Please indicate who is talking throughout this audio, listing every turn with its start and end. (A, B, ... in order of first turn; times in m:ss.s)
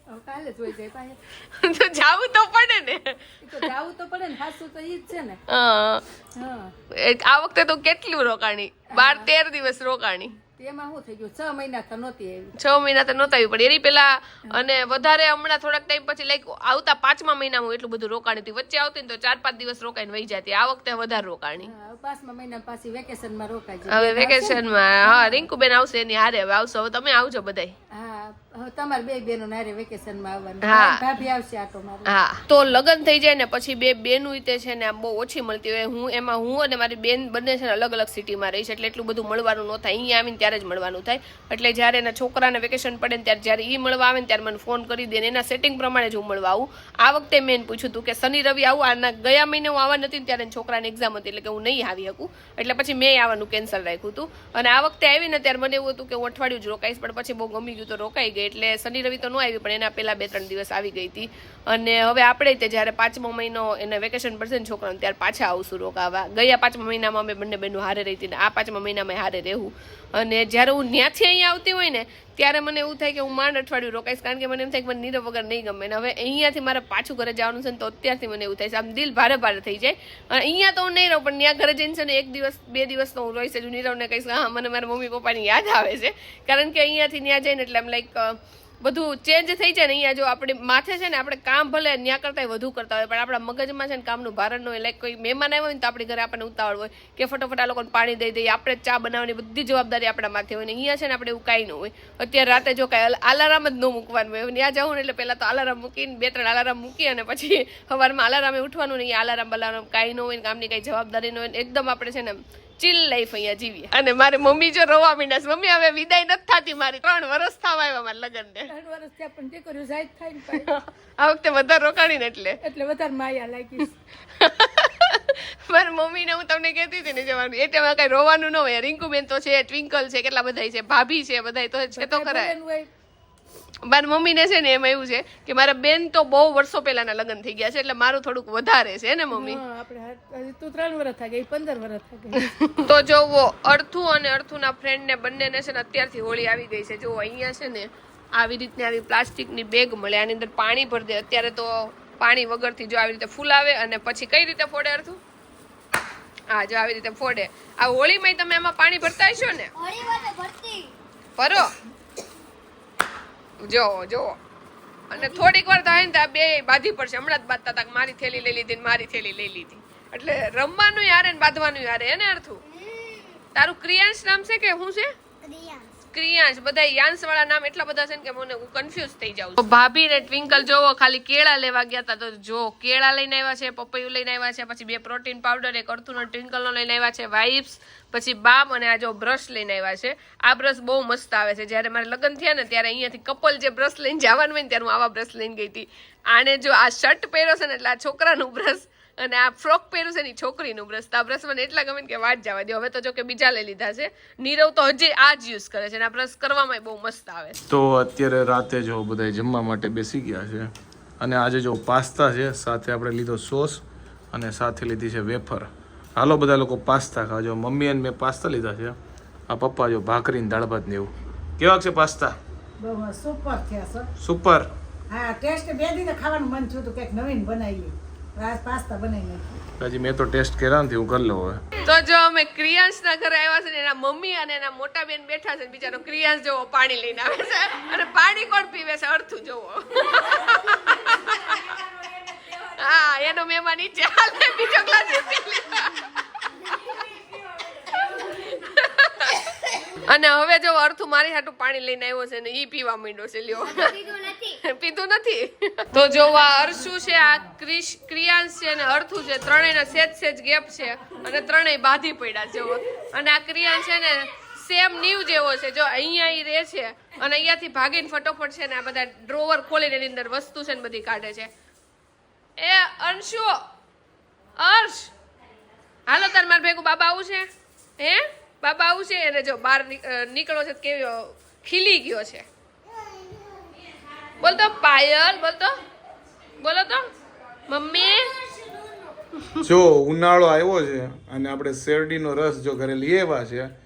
0:00.1-0:01.2 A
0:01.4-0:03.6 B
0:03.4-0:05.4 A
0:05.5-0:06.0 B
0:06.4-0:06.7 A
0:06.9-0:10.3 B
0:08.9-0:09.3 A
0:10.6-0:12.5 A
0:12.6-0:21.7 B
0:21.6-0:25.4 A
0:23.9-0:27.7 B
0:28.0-0:32.1 A
0:30.6-0:31.0 B
0:32.0-1:58.7 B
1:58.7-2:00.8 A
2:00.5-2:02.6 B
2:02.6-2:04.0 A
2:04.4-2:12.5 B
2:12.0-2:12.9 A
2:13.8-2:19.6 B
2:19.3-2:22.6 A
2:22.8-2:35.2 B
2:36.5-2:39.7 B
2:39.8-2:40.9 C
2:41.4-2:41.7 B
2:43.6-2:44.4 B
2:45.1-2:52.6 B
2:52.6-2:53.4 C
2:53.5-2:55.1 B
2:55.4-2:55.9 C
2:56.1-3:27.6 B
3:27.7-3:30.7 D
3:31.2-3:33.8 D
3:34.3-3:35.6 D
3:36.2-3:38.9 D
3:39.5-3:41.1 D
3:41.6-3:42.3 D
3:42.8-3:44.1 E
3:44.2-3:44.6 D
3:45.1-3:49.6 E
3:49.8-3:51.6 D
3:51.8-4:06.2 B
4:06.8-4:07.1 B
4:07.7-4:14.0 B
4:13.6-4:14.6 C
4:14.6-4:31.5 B
4:32.6-4:33.6 B
4:34.6-4:35.1 B
4:36.1-4:37.4 B
4:38.0-4:42.4 B
4:44.4-4:45.7 B
4:46.6-4:47.0 B
4:47.7-4:48.3 B
4:49.6-4:53.7 D